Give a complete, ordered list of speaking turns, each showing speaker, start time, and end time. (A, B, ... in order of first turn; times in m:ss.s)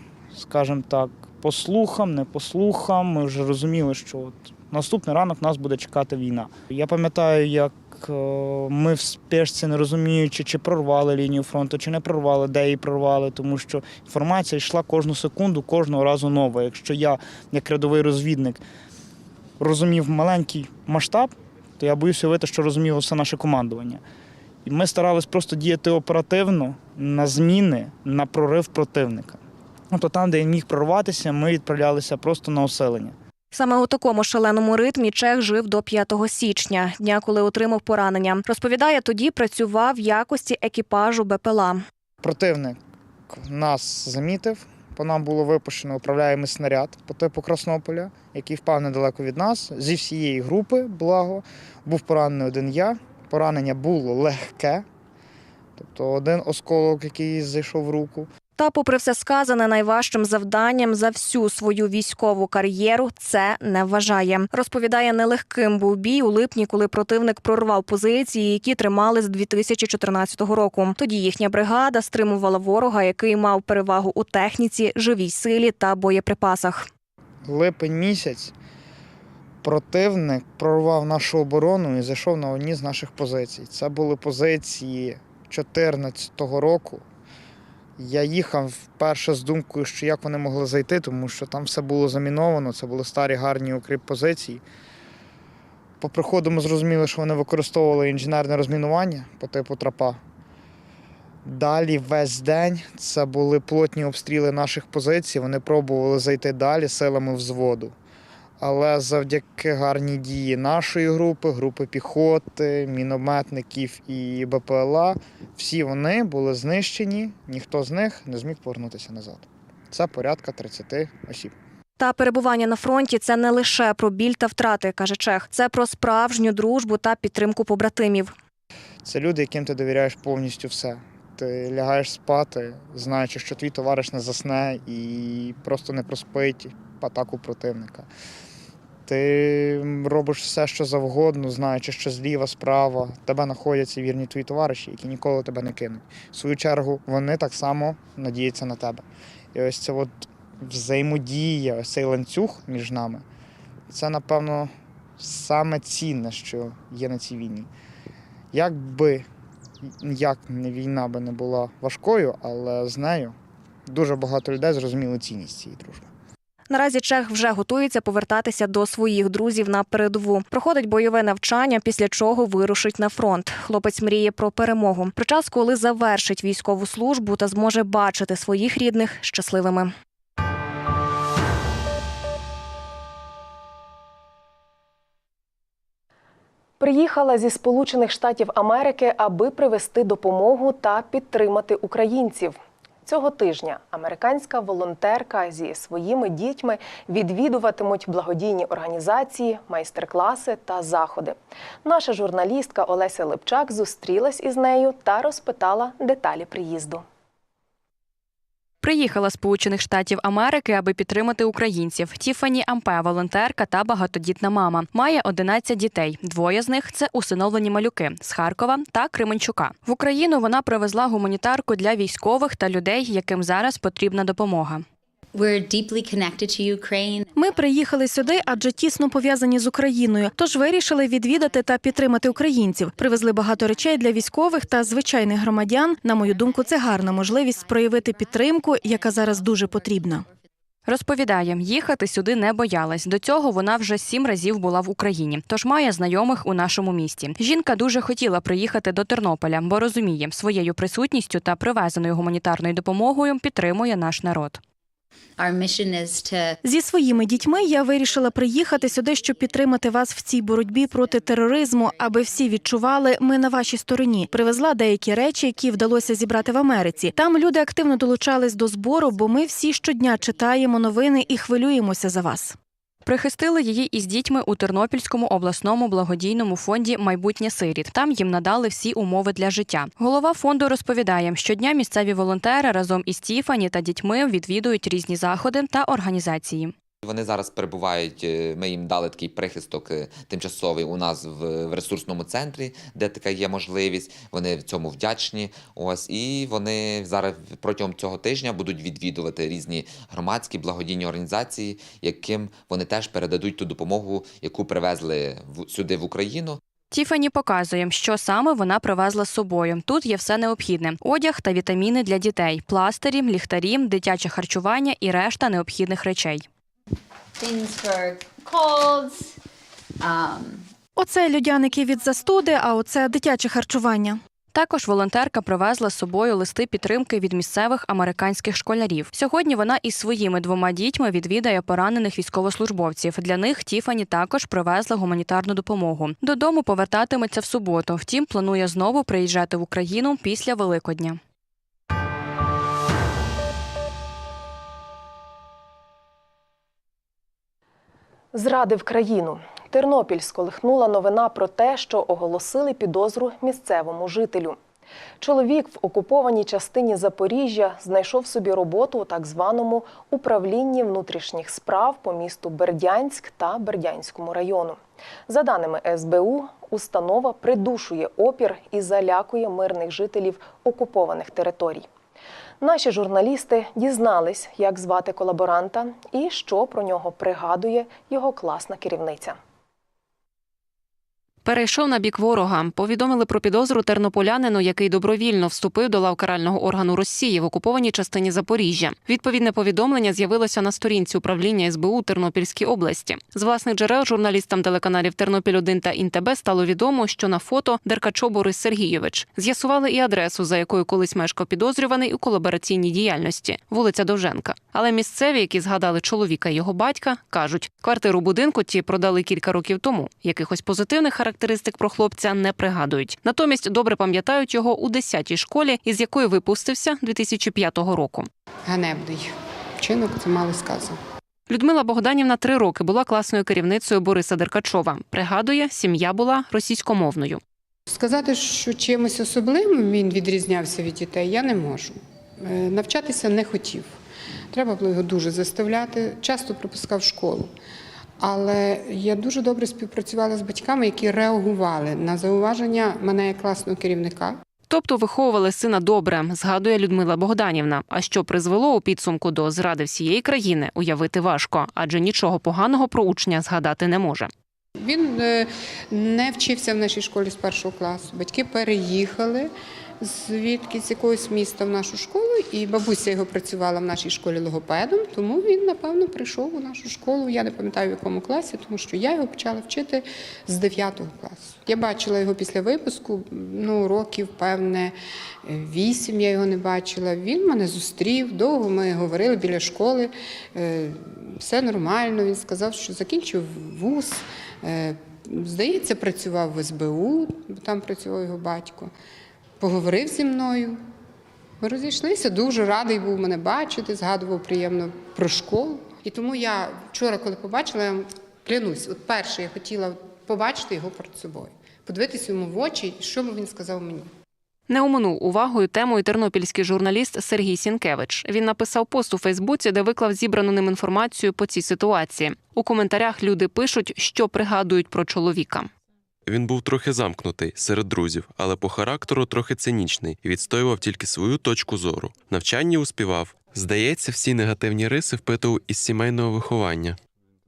0:00.3-0:18.6 A
0:19.6-0:24.0 A
0:24.6-0:33.2 A
0:33.5-0:41.8 B
0:42.2-0:42.8 A
0:43.3-0:54.8 A
0:55.8-0:58.3 A
0:58.6-1:16.9 B
1:17.4-1:18.5 A
1:19.6-1:27.0 A
1:28.0-1:34.6 A
1:36.0-1:40.2 A
1:41.4-1:47.9 A
1:48.6-2:01.5 A
2:02.0-2:08.3 B
2:09.0-2:18.1 A
2:19.0-2:33.2 A
2:33.9-2:37.7 A
2:38.5-2:39.3 A
2:39.8-2:43.3 A
2:43.9-2:46.1 A
2:46.7-2:59.9 B
3:06.8-3:27.0 C
3:28.8-3:44.8 D
3:45.3-3:47.3 E
3:47.3-4:00.2 F
4:00.8-4:14.6 D
4:15.4-4:16.6 E
4:16.6-4:32.6 F
4:33.0-4:46.7 D
4:47.0-5:06.6 G
5:06.9-5:16.4 D
5:17.4-5:19.3 E
5:20.0-5:20.6 E
5:21.0-5:24.2 F
5:24.5-5:41.2 D
5:48.3-5:54.6 C
5:55.2-6:11.8 C
6:12.6-6:19.4 C
6:21.4-6:58.3 H
6:58.6-7:01.0 I
7:01.5-7:07.4 H
7:07.9-7:14.0 I
7:14.5-7:17.5 I
7:18.2-7:24.4 I
7:24.7-7:34.3 H
7:34.8-8:08.9 I
8:09.6-8:10.8 I
8:11.6-8:24.1 I
8:24.7-8:35.7 H
8:36.2-8:47.0 J